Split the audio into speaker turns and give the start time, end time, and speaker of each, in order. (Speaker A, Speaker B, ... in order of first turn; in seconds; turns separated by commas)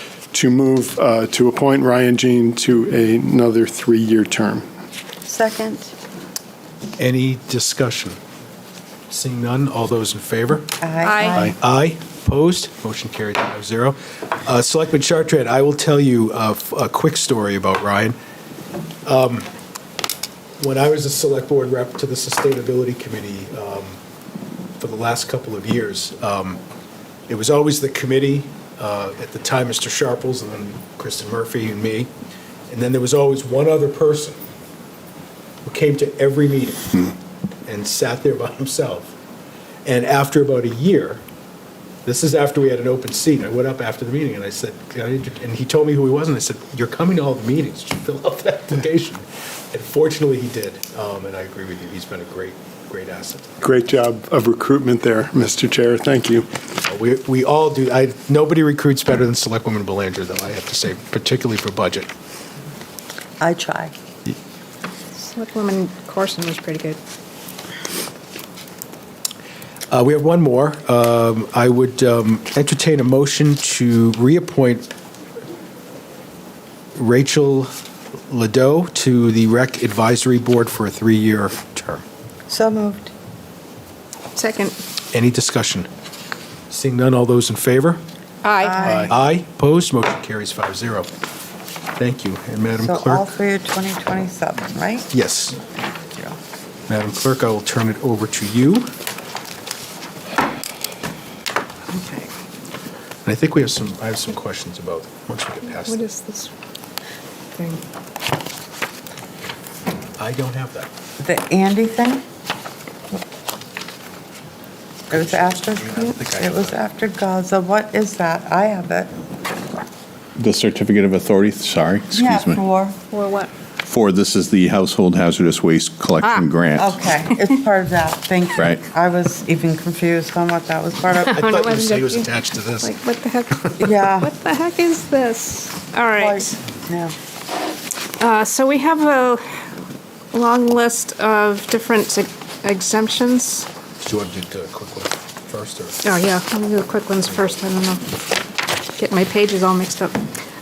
Speaker A: 0.3-4.7, Speaker B: 5.2-5.9, Speaker C: 7.0-8.2, Speaker C: 9.1-10.8, Speaker B: 10.8-11.6, Speaker D: 11.0-11.4, Speaker C: 11.5-18.2, Speaker C: 19.0-19.5, Speaker C: 20.6-24.0, Speaker C: 24.8-26.6, Speaker C: 27.3-32.1, Speaker C: 32.7-34.4, Speaker C: 35.6-37.1, Speaker C: 37.6-39.1, Speaker C: 39.8-41.2, Speaker C: 42.0-53.5, Speaker A: 53.6-56.5, Speaker C: 56.8-62.1, Speaker B: 63.4-63.9, Speaker D: 65.2-67.0, Speaker C: 69.9-74.9, Speaker C: 76.9-77.7, Speaker C: 78.3-82.0, Speaker B: 82.5-83.1, Speaker D: 84.3-84.8, Speaker C: 85.1-85.9, Speaker C: 86.7-88.0, Speaker D: 88.4-89.0, Speaker B: 88.6-89.2, Speaker C: 89.0-91.1, Speaker C: 92.0-93.3, Speaker B: 92.7-95.1, Speaker C: 95.1-95.6, Speaker C: 96.9-98.9, Speaker D: 101.9-102.3, Speaker C: 103.2-106.0, Speaker D: 105.8-106.5, Speaker D: 107.5-107.8, Speaker C: 110.2-110.9, Speaker B: 111.2-112.2, Speaker B: 115.1-119.1, Speaker C: 115.1-116.8, Speaker E: 120.4-122.6, Speaker B: 122.2-123.0, Speaker D: 123.1-123.5, Speaker E: 123.8-127.0, Speaker B: 126.8-131.6, Speaker D: 127.3-127.6, Speaker D: 131.2-136.5, Speaker C: 131.3-132.9, Speaker B: 133.8-134.3, Speaker B: 136.2-137.1, Speaker D: 138.2-139.4, Speaker D: 140.3-143.7, Speaker C: 144.0-146.0, Speaker D: 146.0-148.1, Speaker D: 149.0-150.2